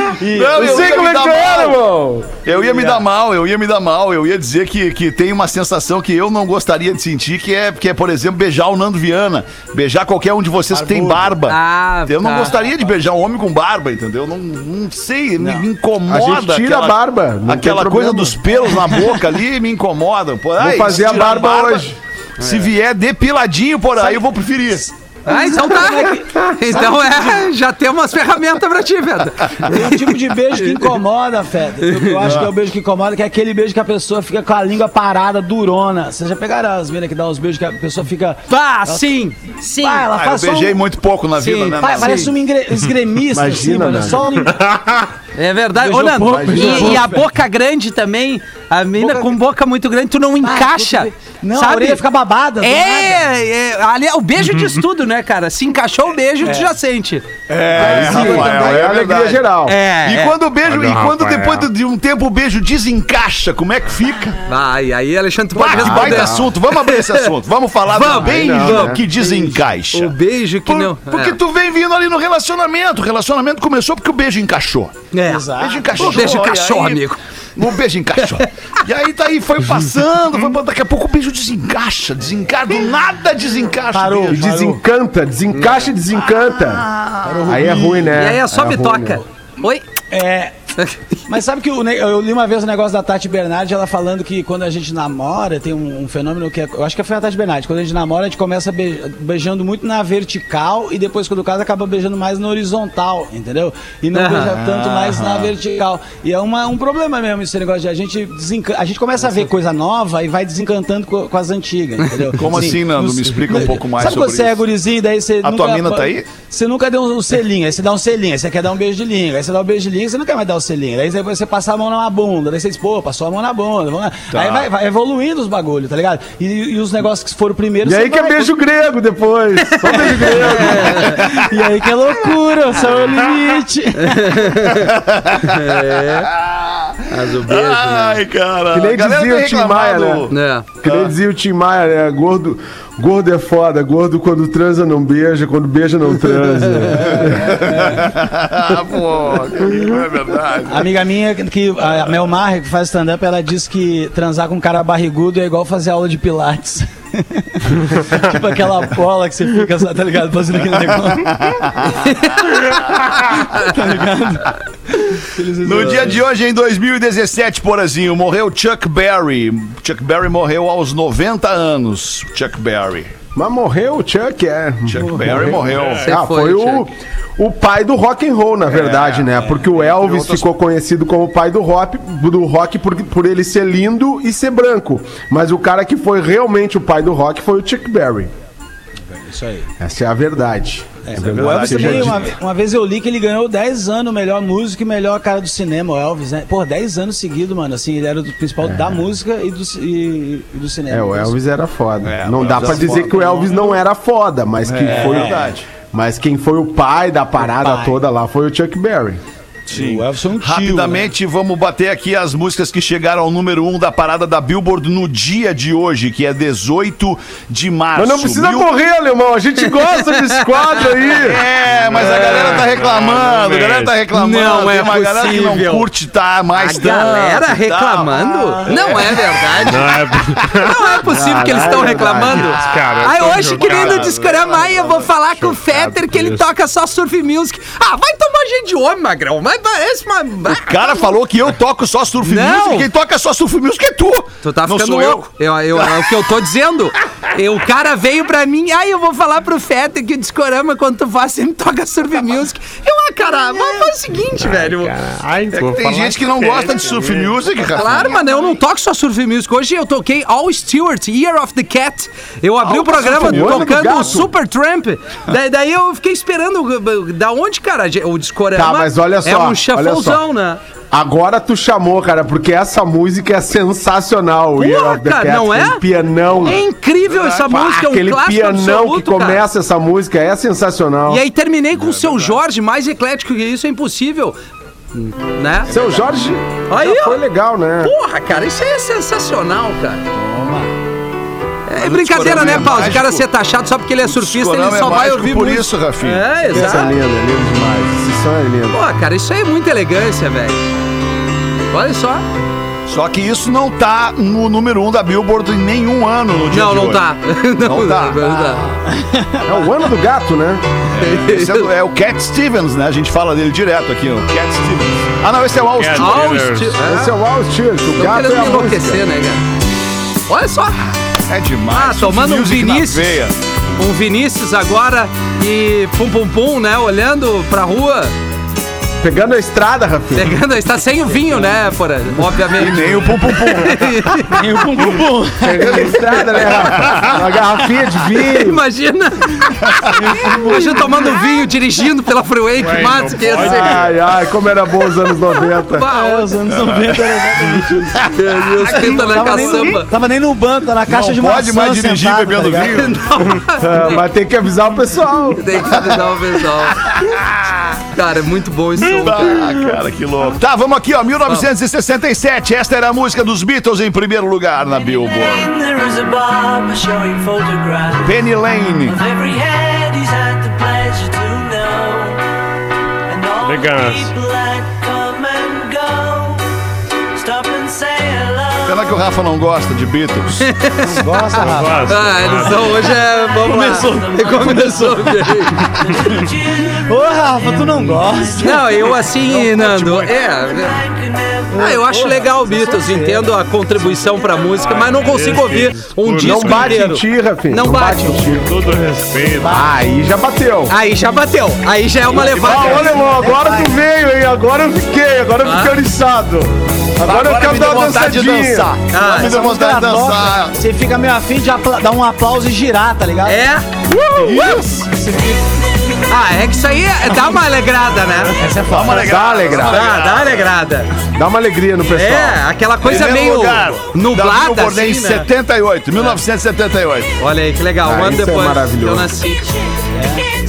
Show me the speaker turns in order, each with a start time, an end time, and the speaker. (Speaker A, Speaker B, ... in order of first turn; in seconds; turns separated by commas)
Speaker A: 0.2-1.0, Speaker B: 0.3-1.8, Speaker C: 0.5-2.4, Speaker B: 2.4-24.9, Speaker A: 10.7-11.3, Speaker D: 11.4-12.6, Speaker A: 15.4-15.7, Speaker C: 16.1-18.4, Speaker C: 20.6-22.0, Speaker D: 22.4-22.7, Speaker A: 25.2-27.0, Speaker D: 25.2-31.0, Speaker A: 29.6-40.8, Speaker D: 31.8-32.2, Speaker B: 32.2-32.5, Speaker D: 38.5-40.1, Speaker B: 40.1-42.3, Speaker D: 41.4-42.3, Speaker A: 41.8-44.6, Speaker C: 43.3-44.3, Speaker E: 44.6-45.0, Speaker D: 45.3-52.0, Speaker A: 45.7-47.3, Speaker C: 46.2-47.0, Speaker A: 49.0-49.4, Speaker A: 50.4-53.2, Speaker D: 52.6-57.3, Speaker A: 56.4-56.7, Speaker B: 57.5-59.4, Speaker A: 57.5-58.7, Speaker C: 57.7-59.8, Speaker D: 59.6-60.4, Speaker B: 60.0-64.4, Speaker E: 60.6-61.7, Speaker D: 64.5-67.3, Speaker B: 65.5-70.1, Speaker C: 65.7-66.5, Speaker D: 67.9-71.4, Speaker C: 68.0-69.0, Speaker B: 70.7-74.9, Speaker D: 75.1-77.2, Speaker A: 75.2-76.4, Speaker B: 75.6-77.0, Speaker B: 77.5-84.4, Speaker A: 83.9-84.8, Speaker C: 84.3-86.9, Speaker D: 85.5-85.9, Speaker B: 86.2-87.8, Speaker A: 87.2-88.2, Speaker C: 87.4-89.2, Speaker D: 88.1-89.9, Speaker A: 90.1-90.5, Speaker A: 91.3-128.5, Speaker D: 104.1-104.5, Speaker B: 104.5-105.5, Speaker B: 112.3-114.6, Speaker B: 115.4-116.3, Speaker B: 124.3-124.7, Speaker C: 127.8-131.3, Speaker A: 129.8-134.7, Speaker D: 130.1-131.2, Speaker D: 134.0-134.9, Speaker B: 134.7-141.1, Speaker D: 135.4-136.3, Speaker D: 137.1-138.2, Speaker C: 138.7-140.3, Speaker D: 140.3-140.7, Speaker C: 140.8-147.8, Speaker B: 147.0-150.9, Speaker A: 150.7-161.3, Speaker B: 161.1-163.9, Speaker A: 163.4-166.2, Speaker B: 165.6-173.1, Speaker C: 173.3-188.3, Speaker B: 174.8-176.1, Speaker E: 175.8-176.1, Speaker D: 176.0-176.9, Speaker B: 178.7-180.4, Speaker A: 189.1-189.7, Speaker C: 189.8-192.3, Speaker A: 191.0-201.3, Speaker B: 191.2-192.3, Speaker C: 198.6-199.0, Speaker C: 200.9-209.2, Speaker B: 202.0-203.7, Speaker A: 202.6-203.4, Speaker B: 204.6-205.7, Speaker A: 204.8-205.5, Speaker A: 207.4-208.0, Speaker A: 209.7-211.1, Speaker B: 209.7-218.7, Speaker C: 217.9-221.4, Speaker D: 220.4-221.0, Speaker B: 221.1-230.1, Speaker E: 221.7-224.0, Speaker D: 222.0-222.6, Speaker D: 224.1-225.9, Speaker D: 226.5-230.0, Speaker E: 229.7-230.9, Speaker D: 230.5-241.0, Speaker C: 231.1-232.5, Speaker E: 232.2-234.2, Speaker B: 232.3-235.1, Speaker E: 235.4-236.4, Speaker B: 240.5-246.2, Speaker D: 242.2-242.9, Speaker D: 244.4-254.9, Speaker E: 254.4-258.0, Speaker B: 255.5-258.6, Speaker D: 257.7-270.6, Speaker C: 262.7-264.3, Speaker B: 262.8-263.7, Speaker C: 268.5-270.2, Speaker C: 270.9-276.6, Speaker D: 274.6-275.8, Speaker D: 276.4-279.4, Speaker B: 277.1-277.6, Speaker C: 277.5-281.2, Speaker D: 281.1-284.4, Speaker B: 281.7-282.4, Speaker D: 284.9-285.8, Speaker C: 285.6-287.9, Speaker D: 286.7-287.2, Speaker D: 287.8-290.1, Speaker A: 290.1-290.7, Speaker D: 291.7-296.9, Speaker B: 291.7-293.2, Speaker B: 294.0-296.3, Speaker C: 296.5-298.8, Speaker A: 296.6-296.9, Speaker D: 298.7-300.6, Speaker D: 301.7-302.2, Speaker B: 302.9-307.0, Speaker D: 306.5-308.7, Speaker B: 307.6-308.7, Speaker A: 308.9-309.5, Speaker C: 309.4-310.6, Speaker B: 310.9-316.5, Speaker D: 311.0-311.7, Speaker E: 315.6-316.8, Speaker D: 315.9-317.1, Speaker C: 316.8-319.0, Speaker D: 317.9-319.4, Speaker D: 320.3-320.8, Speaker B: 321.3-323.4, Speaker D: 321.7-323.2, Speaker D: 323.8-328.1, Speaker C: 329.0-330.4, Speaker D: 330.1-334.5, Speaker B: 332.5-333.9, Speaker A: 334.3-336.2, Speaker C: 335.4-338.6, Speaker B: 336.5-337.0, Speaker D: 338.1-343.9, Speaker A: 339.9-341.1, Speaker E: 342.6-343.9, Speaker C: 343.4-345.9, Speaker D: 345.5-346.3, Speaker A: 345.9-352.9, Speaker B: 346.6-347.0, Speaker B: 348.0-349.0, Speaker D: 348.1-349.9, Speaker B: 350.9-353.1, Speaker D: 352.6-354.0, Speaker C: 353.6-355.7, Speaker D: 355.3-356.9, Speaker B: 355.7-357.9, Speaker D: 357.9-359.5, Speaker B: 358.9-365.5, Speaker F: 364.6-372.2, Speaker B: 368.0-369.0, Speaker F: 373.1-376.4, Speaker E: 373.4-374.1, Speaker F: 377.1-379.1, Speaker B: 378.6-380.5, Speaker D: 380.5-381.0, Speaker A: 380.8-382.0, Speaker E: 381.3-382.7, Speaker F: 381.7-389.2, Speaker D: 381.9-385.7, Speaker A: 383.4-385.7, Speaker A: 386.8-388.7, Speaker D: 388.4-390.8, Speaker B: 389.3-390.0, Speaker F: 389.9-392.1, Speaker A: 391.5-393.3, Speaker D: 391.5-398.3, Speaker F: 394.2-394.4, Speaker E: 394.5-396.8, Speaker C: 396.2-398.5, Speaker E: 398.3-399.7, Speaker A: 399.4-399.8, Speaker C: 399.4-400.7, Speaker D: 400.7-402.9, Speaker C: 402.1-408.8, Speaker A: 402.2-403.8, Speaker B: 402.3-402.7, Speaker D: 405.4-405.8, Speaker B: 407.0-410.6, Speaker D: 408.9-409.4, Speaker A: 409.0-413.4, Speaker D: 413.2-413.7, Speaker B: 414.1-414.9, Speaker A: 414.1-415.5, Speaker C: 414.2-414.5, Speaker D: 416.1-418.4, Speaker A: 418.3-419.1, Speaker B: 418.7-420.5, Speaker C: 418.7-419.9, Speaker D: 419.5-420.9, Speaker C: 421.1-422.4, Speaker D: 421.9-425.3, Speaker B: 422.8-427.1, Speaker D: 427.2-429.6, Speaker C: 427.8-429.1, Speaker A: 429.9-430.3